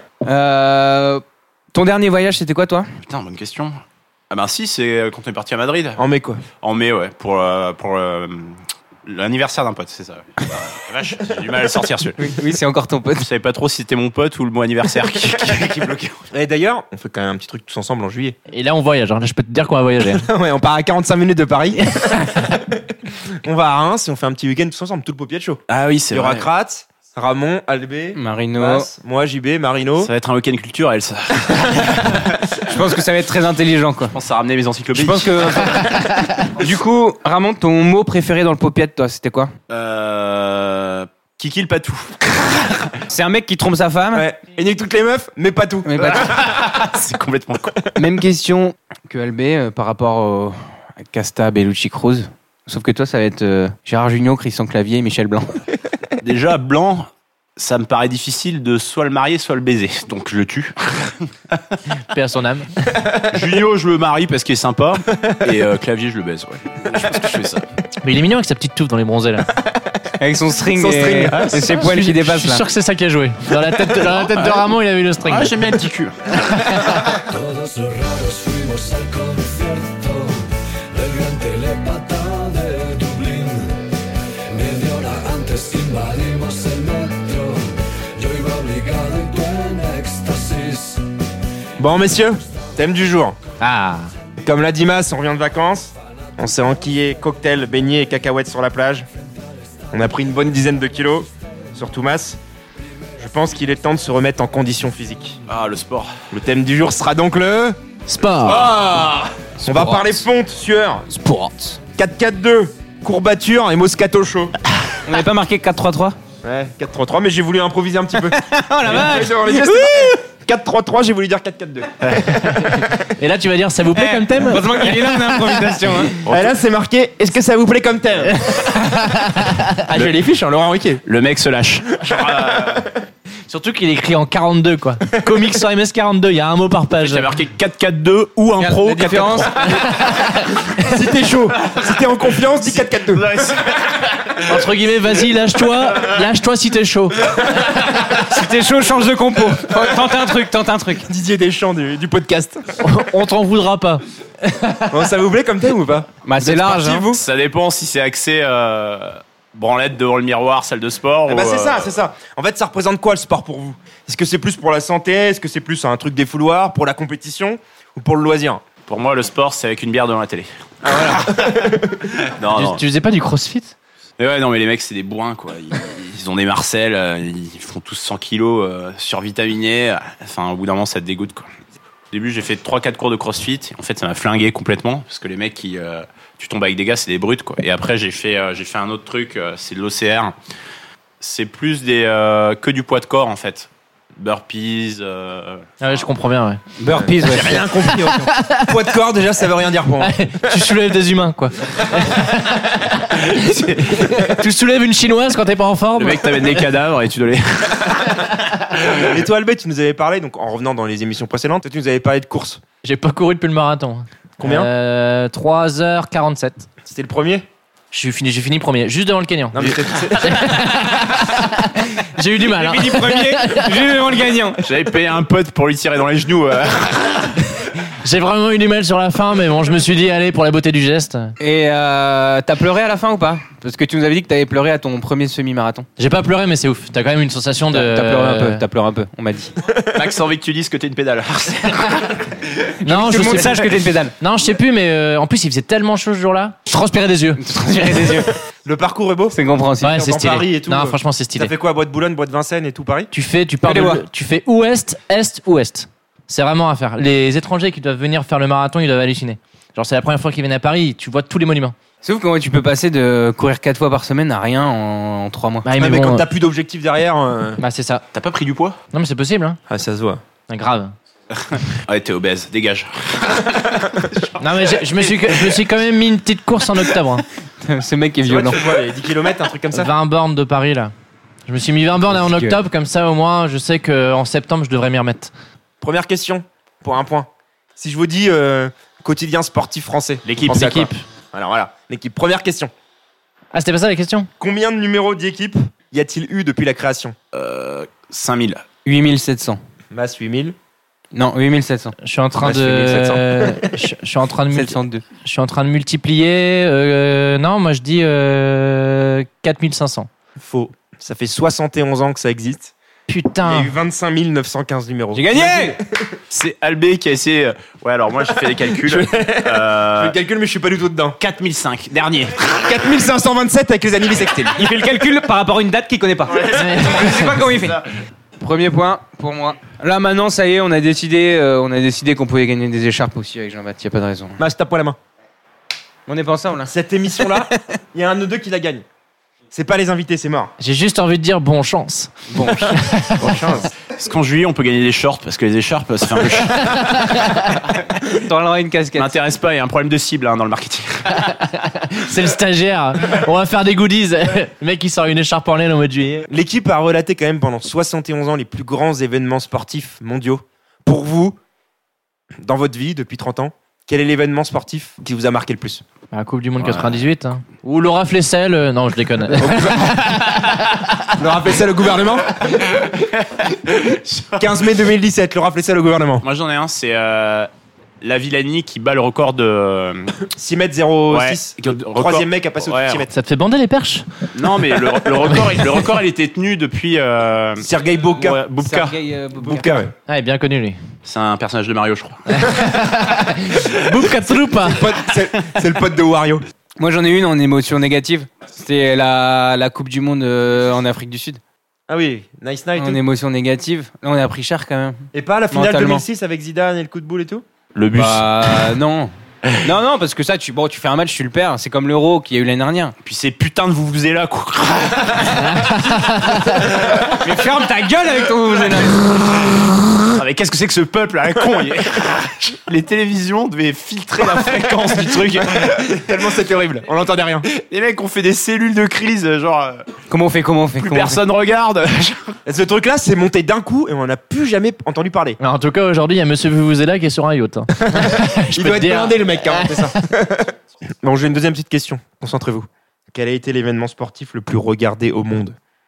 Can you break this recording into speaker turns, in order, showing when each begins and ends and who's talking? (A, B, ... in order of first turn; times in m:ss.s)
0:00.2-0:02.9 A
0:03.0-0:06.0 B
0:06.0-0:06.4 C
0:06.6-0:12.3 B
0:12.2-0:13.3 A
0:13.2-0:16.2 B
0:15.7-0:18.4 C
0:18.5-0:20.3 D
0:20.2-0:30.1 C
0:25.7-0:26.5 B
0:28.2-0:28.9 A
0:30.0-0:32.4 B
0:32.6-0:34.2 A
0:34.1-0:35.9 B
0:34.9-0:39.5 A
0:39.7-0:43.0 B
0:43.1-0:44.3 A
0:44.1-0:46.2 C
0:45.9-0:46.3 A
0:46.0-0:47.9 B
0:48.0-0:55.6 A
0:56.2-1:01.8 B
1:02.1-1:03.0 D
1:03.2-1:07.6 B
1:08.0-1:09.5 D
1:10.2-1:12.7 A
1:10.7-1:11.5 C
1:11.3-1:15.5 D
1:14.0-1:16.4 B
1:16.6-1:17.2 D
1:17.4-1:20.4 E
1:20.9-1:23.7 E
1:24.5-1:27.7 E
1:28.2-1:31.0 E
1:31.8-1:33.4 C
1:33.6-1:34.1 D
1:34.4-1:39.1 C
1:39.9-1:42.4 C
1:43.2-1:45.4 C
1:45.5-1:46.1 B
1:46.3-1:47.8 C
1:48.1-1:48.6 D
1:48.4-1:51.1 C
1:48.4-1:49.3 B
1:51.1-1:51.8 D
1:52.0-1:54.6 C
1:55.1-1:56.2 A
1:56.4-2:02.5 C
1:58.3-2:00.2 A
2:03.1-2:05.6 D
2:03.9-2:06.2 A
2:06.2-2:06.5 B
2:06.3-2:08.6 C
2:09.1-2:09.6 D
2:09.9-2:11.0 C
2:09.9-2:10.2 B
2:11.0-2:12.9 B
2:13.5-2:17.3 D
2:17.0-2:19.9 B
2:18.6-2:19.7 A
2:20.8-2:23.5 C
2:21.6-2:24.6 B
2:24.5-2:27.4 D
2:28.2-2:31.1 A
2:31.1-2:32.6 C
2:32.8-2:34.9 D
2:34.9-2:37.2 C
2:36.3-2:37.1 A
2:37.1-2:41.9 B
2:41.3-2:48.6 C
2:48.9-2:52.8 B
2:50.9-2:51.6 C
2:52.5-2:53.8 D
2:54.2-3:01.5 B
3:02.1-3:10.4 B
3:11.2-3:16.0 B
3:15.8-3:16.6 D
3:16.8-3:17.6 A
3:17.0-3:20.2 C
3:17.9-3:18.7 D
3:20.0-3:26.6 D
3:23.3-3:24.0 B
3:26.0-3:28.9 B
3:28.8-3:32.6 C
3:32.8-3:36.7 D
3:34.4-3:34.7 C
3:36.8-3:37.5 C
3:37.9-3:43.7 D
3:39.5-3:40.6 C
3:42.4-3:44.6 A
3:44.6-3:47.6 B
3:48.0-3:51.4 D
3:51.4-3:55.9 A
3:56.0-3:58.6 D
3:57.7-3:59.5 A
3:59.9-4:02.5 B
4:02.8-4:04.1 A
4:02.8-4:07.4 D
4:07.4-4:08.3 A
4:08.6-4:13.1 C
4:09.3-4:10.0 A
4:09.8-4:11.5 D
4:13.1-4:21.8 D
4:13.6-4:14.0 A
4:22.0-4:25.7 A
4:25.6-4:26.3 D
4:25.8-4:27.6 C
4:27.6-4:28.0 D
4:28.1-4:28.8 B
4:28.9-4:29.6 D
4:29.7-4:30.2 C
4:30.5-4:31.0 D
4:31.3-4:35.6 B
4:34.4-4:37.2 D
4:37.6-4:38.6 A
4:38.2-4:39.9 C
4:39.7-4:40.9 D
4:41.5-4:45.3 D
4:42.1-4:42.6 A
4:45.8-4:52.7 C
4:50.3-4:50.9 B
4:50.6-4:51.0 D
4:53.5-4:54.3 D
4:54.4-4:57.2 C
4:57.3-4:58.6 B
4:58.8-4:59.6 A
4:59.9-5:00.6 C
5:01.1-5:02.0 A
5:02.0-5:10.1 D
5:02.4-5:03.7 C
5:04.5-5:05.0 A
5:10.4-5:12.7 C
5:13.1-5:13.7 D
5:13.4-5:16.2 C
5:15.1-5:15.8 A
5:16.3-5:20.2 B
5:18.5-5:21.2 C
5:21.2-5:22.7 B
5:22.5-5:24.6 C
5:24.6-5:27.8 A
5:26.3-5:27.9 B
5:26.6-5:27.2 D
5:28.4-5:34.4 A
5:34.4-5:35.0 C
5:36.1-5:36.7 A
5:36.7-5:38.8 C
5:39.5-5:40.5 C
5:40.6-5:42.1 D
5:42.3-5:42.8 A
5:42.7-5:43.4 D
5:43.2-5:43.7 C
5:43.9-5:46.8 B
5:46.6-5:47.5 D
5:48.1-5:49.1 A
5:49.0-5:51.2 B
5:51.3-5:56.3 D
5:56.3-6:01.4 C
6:02.4-6:05.8 C
6:06.1-6:09.8 D
6:06.6-6:07.0 B
6:09.3-6:10.2 C
6:11.1-6:12.6 C
6:12.4-6:14.6 B
6:14.4-6:16.2 C
6:16.2-6:17.5 B
6:18.0-6:20.2 B
6:20.4-6:23.1 C
6:21.1-6:23.0 B
6:23.1-6:24.1 D
6:24.3-6:29.0 B
6:27.6-6:28.4 C
6:28.6-6:29.9 A
6:29.4-6:29.9 C
6:30.1-6:30.8 D
6:31.0-6:32.5 B
6:32.3-6:34.9 D
6:34.6-6:36.4 C
6:36.8-6:41.4 A
6:41.9-6:43.0 C
6:42.8-6:46.0 A
6:45.1-6:47.4 C
6:47.8-6:48.8 B
6:47.9-6:53.0 A
6:53.0-6:55.9 B
6:55.4-6:56.6 D
6:56.5-6:57.2 B
6:57.2-6:59.1 A
7:00.1-7:06.2 B
7:05.2-7:07.5 C
7:07.5-7:09.8 B
7:10.1-7:11.2 A
7:10.8-7:12.4 B
7:12.4-7:15.4 C
7:15.4-7:20.0 D
7:17.8-7:25.6 C